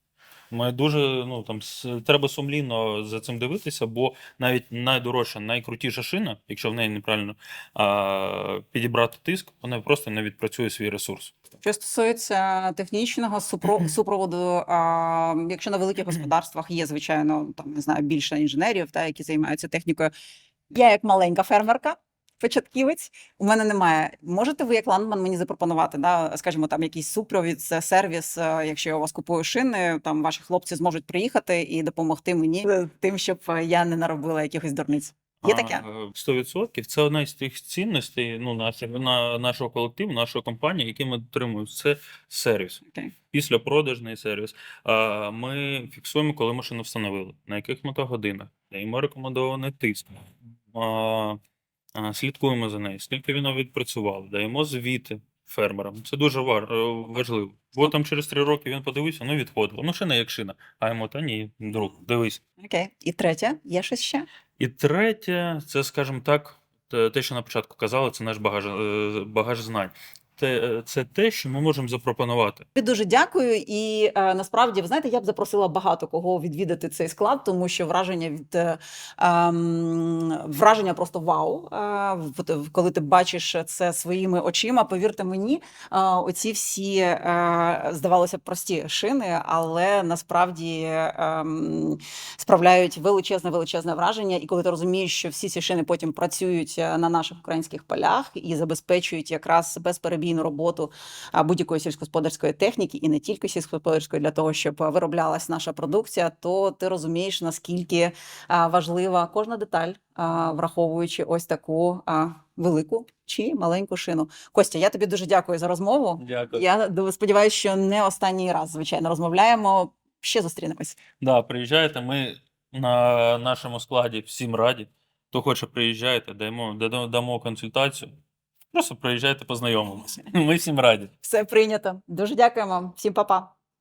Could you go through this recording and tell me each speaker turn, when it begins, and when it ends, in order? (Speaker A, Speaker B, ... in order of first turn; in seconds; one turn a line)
Speaker A: 0.5-11.3
Speaker B: 11.6-20.1
Speaker B: 20.7-35.8
Speaker A: 35.4-51.4
Speaker A: 51.9-62.4
Speaker B: 62.6-64.2
Speaker A: 64.6-72.6
Speaker B: 72.7-121.0
Speaker A: 116.2-116.6
Speaker A: 121.2-128.1
Speaker A: 128.7-131.1
Speaker B: 131.2-133.5